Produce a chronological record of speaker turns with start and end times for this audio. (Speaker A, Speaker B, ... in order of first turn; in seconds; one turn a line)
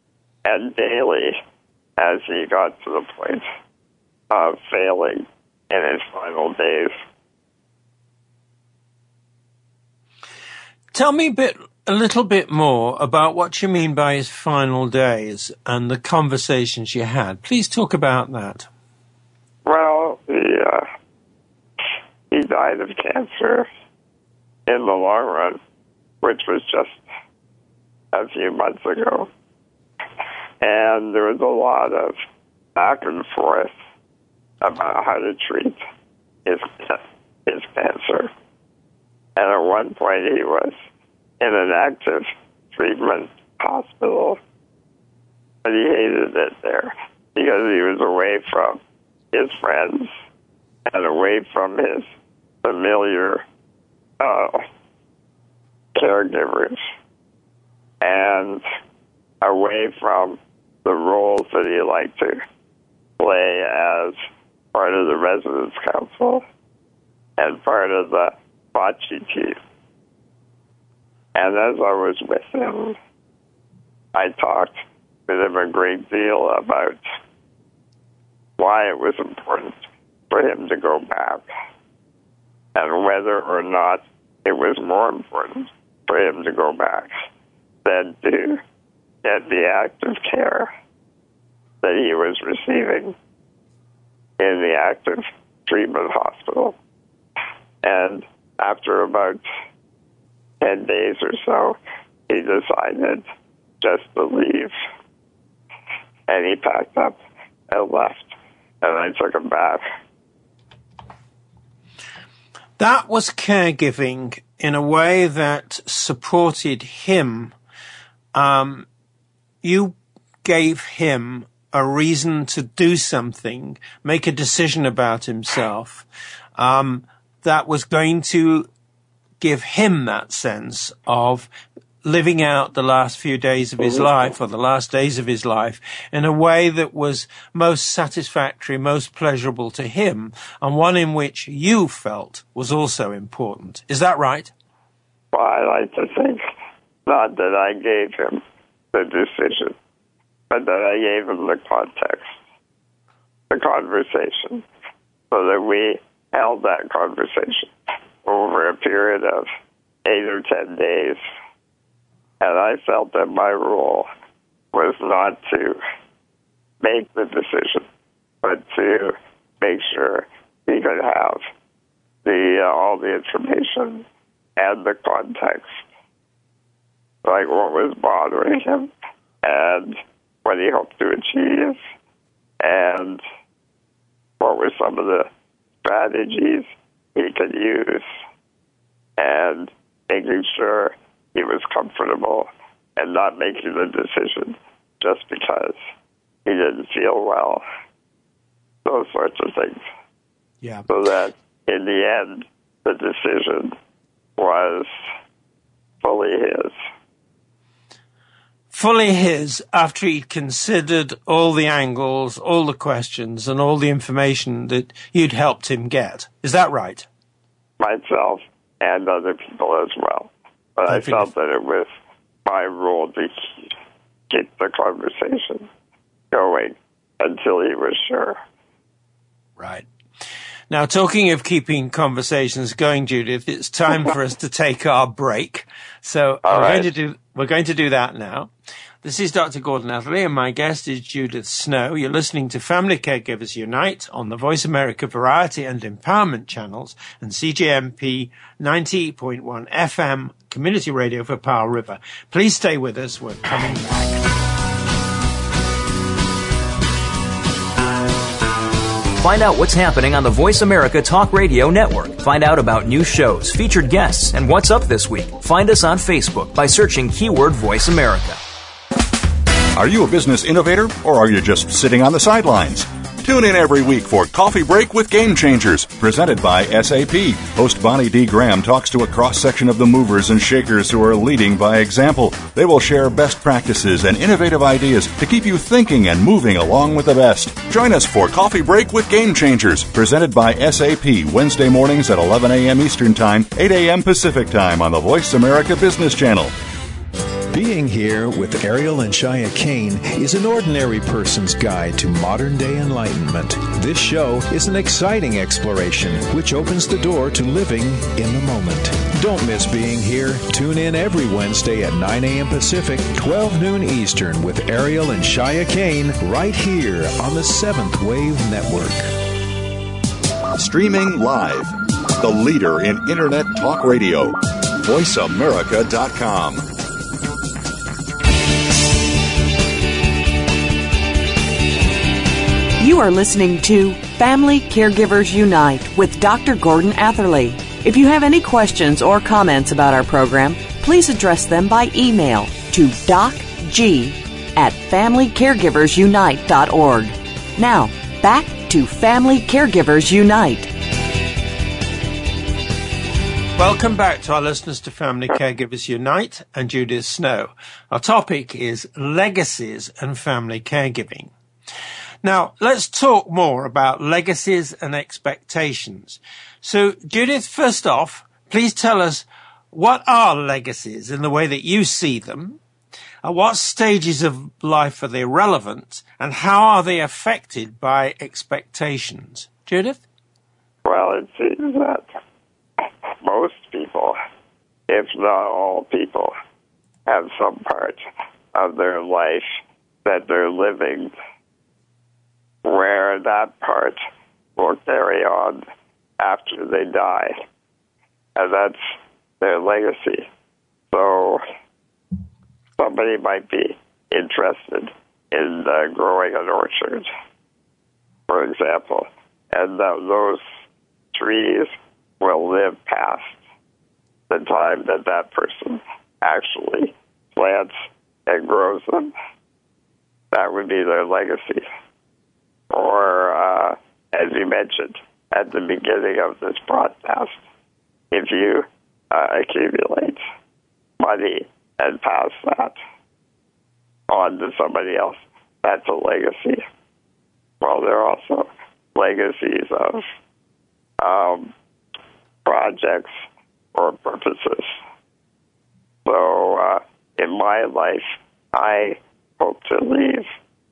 Speaker A: 0.4-1.4
Speaker A: 2.0-3.4
Speaker A: 4.3-7.0
Speaker B: 10.9-18.7
Speaker A: 19.6-20.9
Speaker A: 22.3-23.7
Speaker A: 24.7-25.6
Speaker A: 26.2-27.0
Speaker A: 28.1-29.3
Speaker A: 30.6-32.2
Speaker A: 32.8-33.7
Speaker A: 34.6-35.8
Speaker A: 36.5-38.3
Speaker A: 39.4-40.8
Speaker A: 41.4-44.4
Speaker A: 45.6-48.8
Speaker A: 49.3-50.1
Speaker A: 50.9-52.1
Speaker A: 52.6-53.4
Speaker A: 54.2-54.6
Speaker A: 55.9-56.8
Speaker A: 58.0-58.6
Speaker A: 59.4-62.4
Speaker A: 63.2-64.2
Speaker A: 64.7-66.4
Speaker A: 67.4-69.6
Speaker A: 71.3-73.0
Speaker A: 74.1-74.8
Speaker A: 75.3-77.0
Speaker A: 78.6-81.5
Speaker A: 82.7-87.1
Speaker A: 87.8-88.6
Speaker A: 89.2-90.7
Speaker A: 91.8-93.1
Speaker A: 94.4-96.7
Speaker A: 97.8-99.4
Speaker A: 100.6-101.8
Speaker A: 102.3-103.2
Speaker A: 103.8-104.7
Speaker A: 106.3-107.2
Speaker A: 107.7-109.8
Speaker B: 112.8-117.5
Speaker B: 118.3-118.8
Speaker B: 119.6-126.0
Speaker B: 126.6-128.7
Speaker B: 129.4-131.5
Speaker B: 132.0-144.5
Speaker A: 145.3-146.4
Speaker A: 147.1-148.4
Speaker A: 148.9-149.7
Speaker A: 150.5-152.3
Speaker A: 153.5-154.6
Speaker A: 155.3-159.5
Speaker A: 160.0-161.2
Speaker A: 162.4-164.1
Speaker A: 164.7-165.8
Speaker A: 166.8-167.8
Speaker A: 168.4-171.4
Speaker A: 172.2-174.0
Speaker A: 174.6-175.8
Speaker A: 177.2-178.9
Speaker A: 179.4-181.8
Speaker A: 182.6-183.2
Speaker A: 184.4-185.3
Speaker A: 185.8-188.1
Speaker A: 189.2-195.8
Speaker A: 196.4-197.6
Speaker A: 198.8-199.8
Speaker A: 200.9-203.7
Speaker A: 204.4-204.9
Speaker A: 206.0-206.7
Speaker B: 208.7-217.1
Speaker A: 217.8-221.9
Speaker B: 220.9-221.3
Speaker A: 222.4-223.7
Speaker A: 224.3-225.7
Speaker A: 226.3-228.4
Speaker B: 229.6-229.8
Speaker B: 230.7-238.5
Speaker A: 236.4-236.9
Speaker B: 239.0-254.2
Speaker C: 259.2-268.4
Speaker D: 269.7-296.5
Speaker E: 297.5-319.1
Speaker D: 320.6-326.7
Speaker F: 332.8-350.7
Speaker B: 353.6-361.3
Speaker B: 362.2-372.6
Speaker B: 373.2-380.0
Speaker A: 380.8-382.1
Speaker A: 383.2-384.1
Speaker A: 384.9-386.3
Speaker A: 387.1-388.0
Speaker A: 388.5-391.1
Speaker A: 392.6-394.0
Speaker A: 394.6-395.6
Speaker A: 396.2-397.3
Speaker A: 398.4-400.3
Speaker A: 400.9-401.4
Speaker A: 402.8-407.1
Speaker A: 408.3-410.4
Speaker A: 411.1-413.4
Speaker A: 414.3-417.7
Speaker A: 418.3-419.1
Speaker A: 420.3-421.6
Speaker A: 422.7-427.4
Speaker A: 428.1-430.2
Speaker A: 431.0-432.8
Speaker A: 434.1-436.6
Speaker A: 437.6-440.0
Speaker A: 441.0-441.5
Speaker A: 442.4-443.2
Speaker A: 443.7-444.8
Speaker A: 446.1-450.3